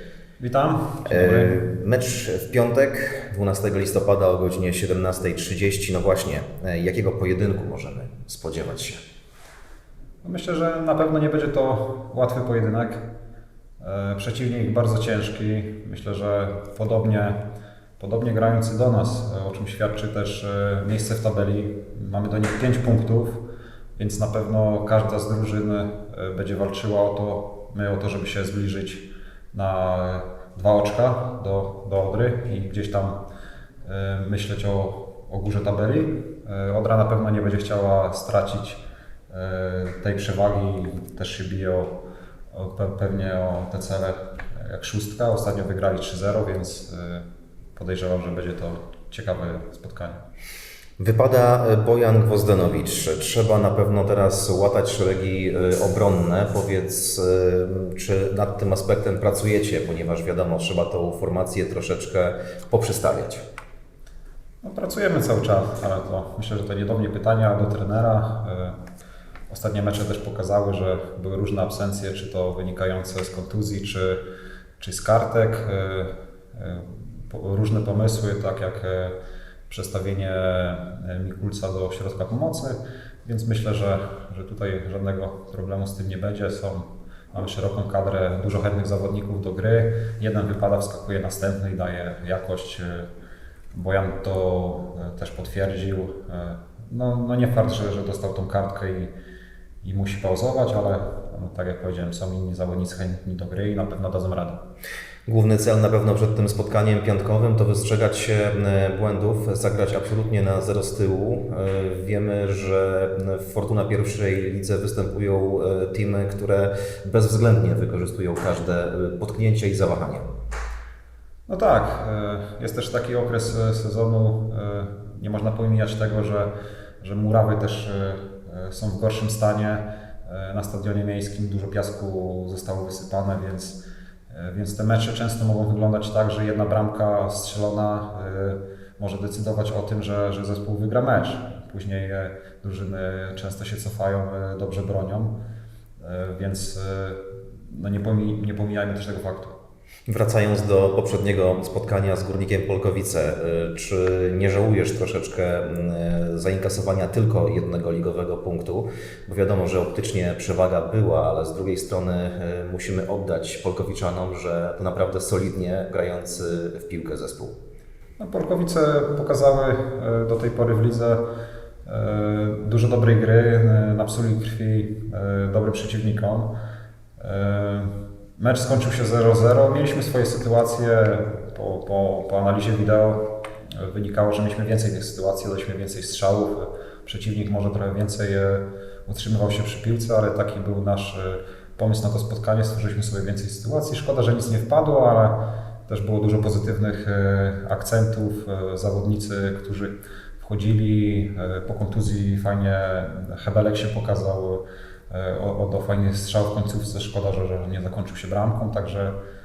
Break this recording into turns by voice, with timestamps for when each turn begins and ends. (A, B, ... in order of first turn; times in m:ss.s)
0:00.4-0:01.6 A
0:01.0-0:09.0 B
0:10.2-0:13.1 A
0:13.8-0:17.4 A
0:18.0-0:23.4 A
0:24.0-0:33.2 A
0:33.8-0:42.0 A
0:42.5-0:50.2 A
0:51.0-1:03.4 B
1:04.6-1:08.8 A
1:09.5-1:14.2 A
1:14.8-1:19.2 A
1:19.7-1:33.1 A
1:33.7-1:39.2 A
1:39.8-1:44.6 A
1:45.3-2:00.2 B
2:01.5-2:25.4 A
2:26.0-2:29.5 A
2:30.1-2:47.6 B
2:48.2-2:51.2 A
2:51.8-2:56.5 A
2:57.2-3:29.2 A